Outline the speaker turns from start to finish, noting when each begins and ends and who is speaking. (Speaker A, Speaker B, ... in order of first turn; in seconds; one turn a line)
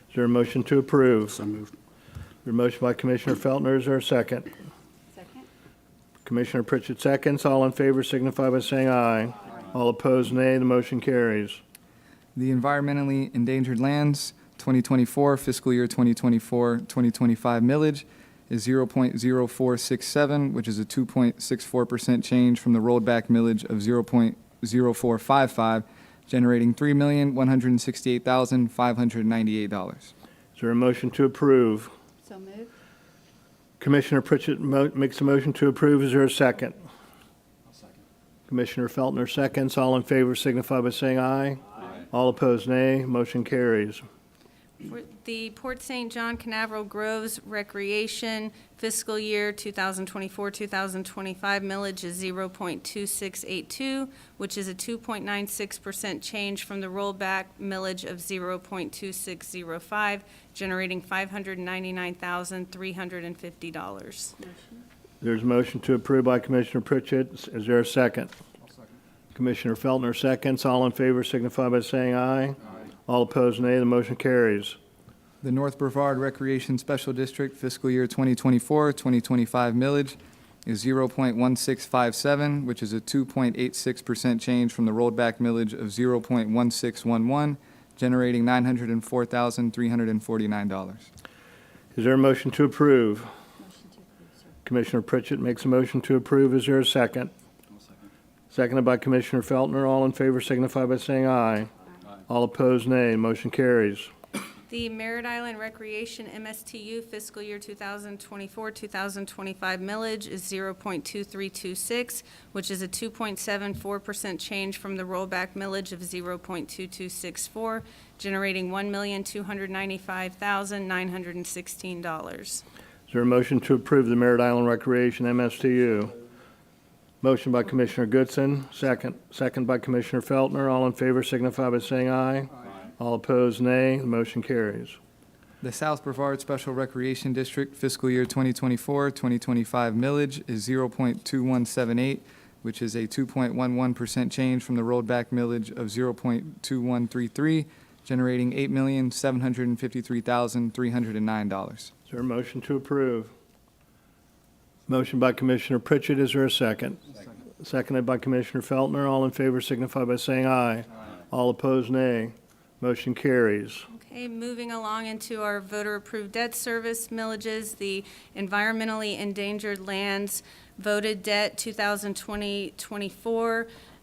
Speaker A: 0.1-1.6
Speaker A: 2.5-4.5
Speaker B: 5.2-5.5
Speaker A: 6.2-11.6
Speaker C: 12.3-30.1
Speaker A: 30.6-31.9
Speaker B: 32.3-32.7
Speaker A: 33.8-36.8
Speaker A: 38.5-44.0
Speaker D: 44.8-64.4
Speaker B: 64.4-64.8
Speaker A: 65.2-68.3
Speaker A: 69.3-74.8
Speaker C: 75.4-91.1
Speaker A: 91.9-93.3
Speaker B: 93.6-94.5
Speaker A: 94.7-97.3
Speaker A: 98.5-101.7
Speaker A: 102.3-104.1
Speaker D: 104.7-122.6
Speaker A: 123.1-126.1
Speaker A: 127.2-135.0
Speaker C: 135.6-151.9
Speaker A: 152.1-153.3
Speaker A: 154.9-163.9
Speaker D: 163.9-173.7